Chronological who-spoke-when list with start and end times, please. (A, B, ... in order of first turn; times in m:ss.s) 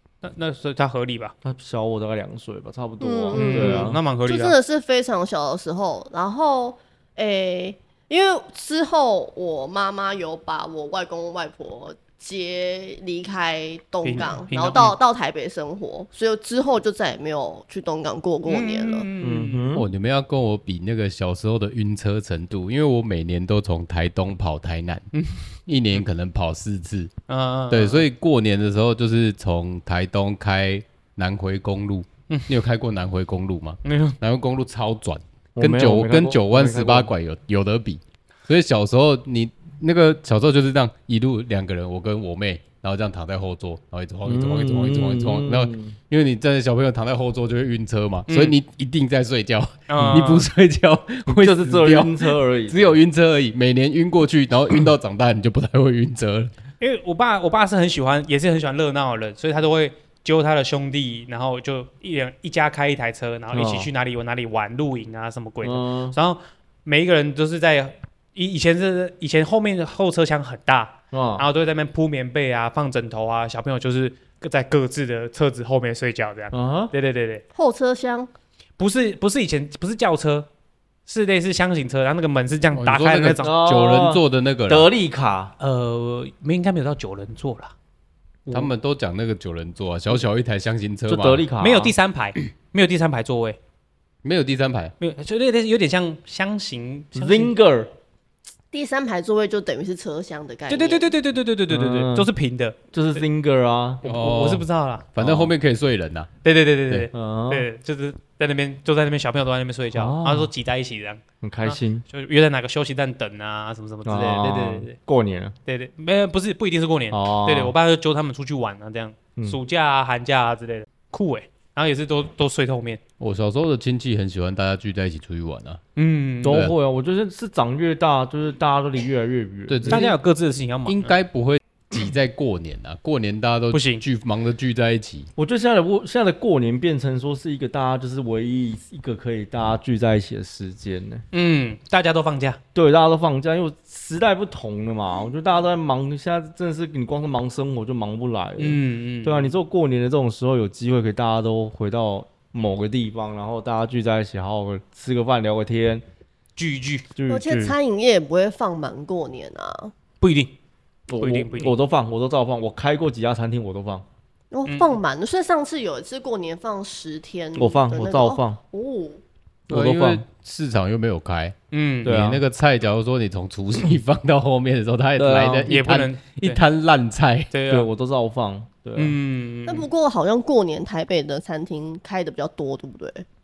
0:00.2-0:01.3 A
0:01.4-0:04.0 B
0:03.0-0:19.1 C
0:03.3-0:04.6 A
0:14.0-0:15.0 A
0:18.5-0:19.8 A
0:19.2-0:19.9 B
0:19.8-0:25.1 D
0:25.1-0:25.5 A
0:25.7-0:27.1 D
0:27.3-0:28.1 A
0:27.7-0:56.5 D
0:33.8-0:34.2 A
0:35.6-0:37.1 B
0:44.3-0:46.0 B
0:48.3-0:48.6 A
0:49.9-0:50.5 A
0:50.0-0:50.2 B
0:51.3-0:53.0 B
0:56.8-1:17.4 A
1:03.5-1:03.9 B
1:05.6-1:06.2 B
1:11.1-1:11.4 B
1:16.5-1:16.9 B
1:17.5-1:18.3 C
1:18.8-1:20.5 A
1:21.1-1:23.5 A
1:22.7-1:24.9 D
1:23.4-1:25.5 B
1:25.6-1:27.7 A
1:28.5-1:31.5 D
1:31.1-1:31.9 B
1:31.6-1:33.6 A
1:34.2-1:34.9 D
1:35.0-1:37.5 A
1:37.1-1:37.9 B
1:38.7-1:41.1 C
1:40.7-1:43.2 A
1:41.7-1:42.3 B
1:42.9-1:44.0 B
1:44.0-1:45.1 A
1:44.0-1:46.3 D
1:45.2-1:45.5 B
1:46.4-1:55.0 A
1:47.1-1:47.7 B
1:49.9-1:50.5 B
1:51.4-1:52.0 B
1:54.0-1:55.6 B
1:55.7-2:03.0 A
1:57.1-1:57.7 B
2:03.2-2:05.8 D
2:06.0-2:06.7 A
2:06.4-2:10.1 B
2:06.5-2:06.8 D
2:09.7-2:10.2 D
2:09.9-2:11.2 A
2:10.9-2:15.3 D
2:13.7-2:14.0 A
2:15.4-2:21.2 B
2:21.3-2:22.6 A
2:22.8-2:36.0 B
2:28.6-2:29.5 A
2:36.6-2:37.1 A
2:37.2-2:37.8 B
2:37.3-2:39.9 C
2:40.2-2:40.5 A
2:41.1-2:44.0 B
2:41.2-2:41.8 A
2:44.5-2:49.2 C
2:44.7-2:45.0 A
2:47.6-2:48.6 B
2:49.7-2:50.2 B
2:49.7-2:51.6 D
2:51.7-2:52.1 A
2:52.0-2:52.4 B
2:52.1-2:57.5 D
2:55.2-2:55.7 B
2:55.7-2:56.6 A
2:57.5-2:57.9 A
2:57.7-2:59.2 B
2:59.0-2:59.9 A
2:59.7-3:03.2 C